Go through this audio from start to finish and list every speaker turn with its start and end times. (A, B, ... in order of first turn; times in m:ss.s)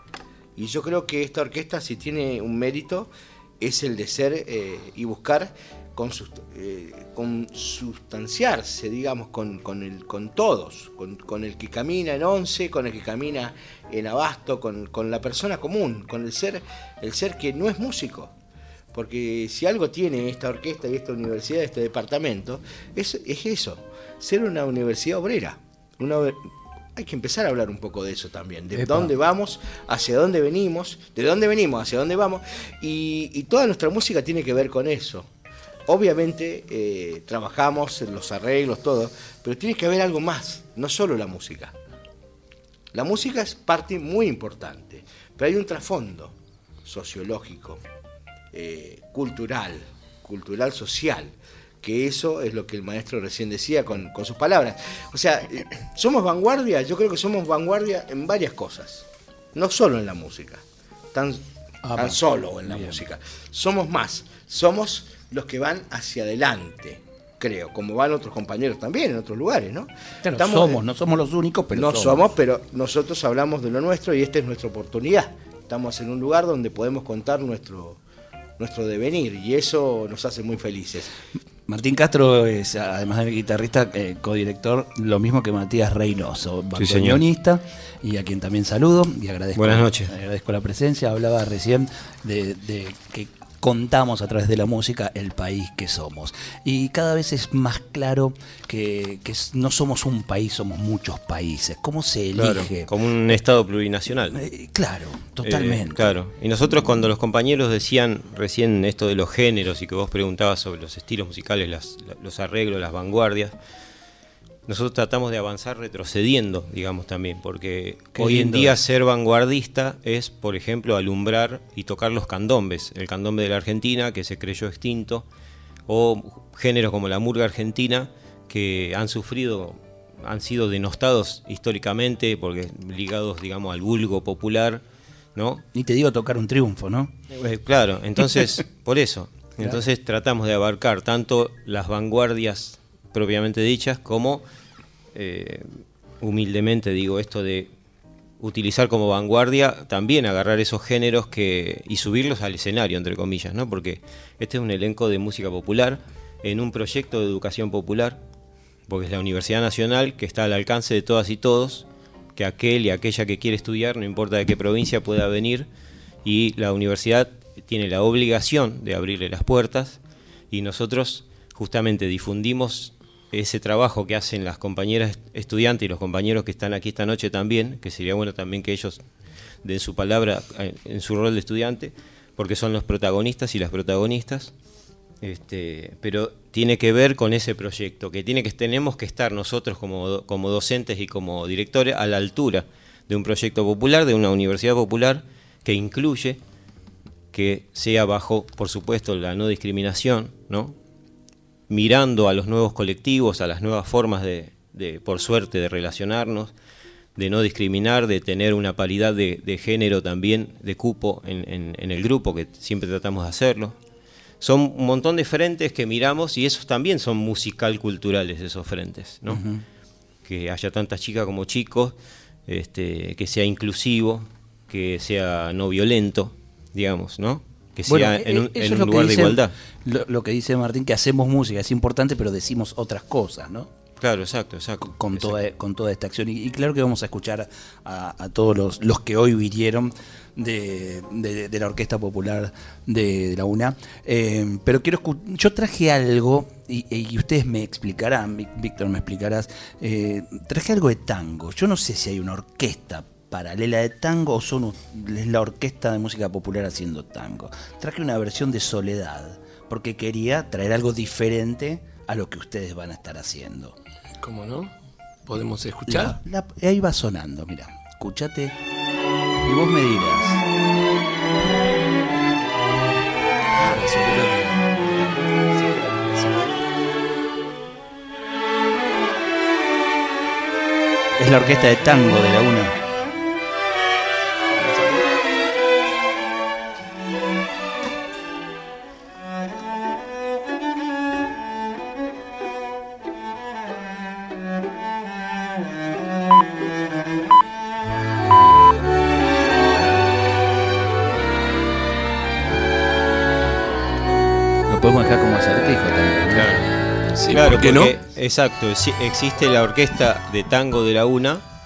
0:00.6-0:18.4 A
0:18.9-0:35.3 A
0:28.7-0:29.1 B
0:35.9-0:41.8 A
0:42.9-0:47.8 A
0:48.5-1:01.4 A
1:01.8-1:03.0 B
1:02.0-1:10.8 A
1:10.2-1:12.3 B
1:11.7-1:18.0 A
1:18.6-1:21.1 A
1:21.7-1:42.9 B
1:26.8-1:27.2 C
1:29.6-1:30.1 C
1:42.4-1:44.4 C
1:44.3-1:46.2 B
1:45.4-1:53.6 C
1:54.7-2:05.3 C
1:58.2-1:58.8 B
2:05.9-2:14.8 C
2:15.4-2:15.6 C
2:15.7-2:17.2 B
2:17.3-2:24.4 C
2:25.1-2:27.7 C
2:28.4-2:38.2 C
2:38.9-2:45.7 C
2:46.2-2:50.0 C
2:50.5-2:59.0 C
2:59.6-3:04.5 C
3:05.2-3:16.4 C
3:17.3-3:20.8 C
3:21.7-3:26.5 C
3:27.2-3:33.8 C
3:34.4-3:39.4 C
3:39.3-3:39.6 B
3:40.2-3:42.0 C
3:42.5-3:49.6 C
3:47.9-3:53.7 B
3:54.0-3:55.4 C
3:54.8-4:23.8 B
4:24.2-4:24.7 D
4:25.2-4:26.2 D
4:25.9-4:28.6 B
4:29.4-4:30.4 B
4:33.6-4:34.6 D
4:34.9-4:36.5 C
4:41.2-4:42.8 B
4:44.6-4:45.0 C
5:04.7-5:06.6 B
5:06.3-5:06.7 C
5:07.2-5:08.0 D
5:07.3-5:11.4 C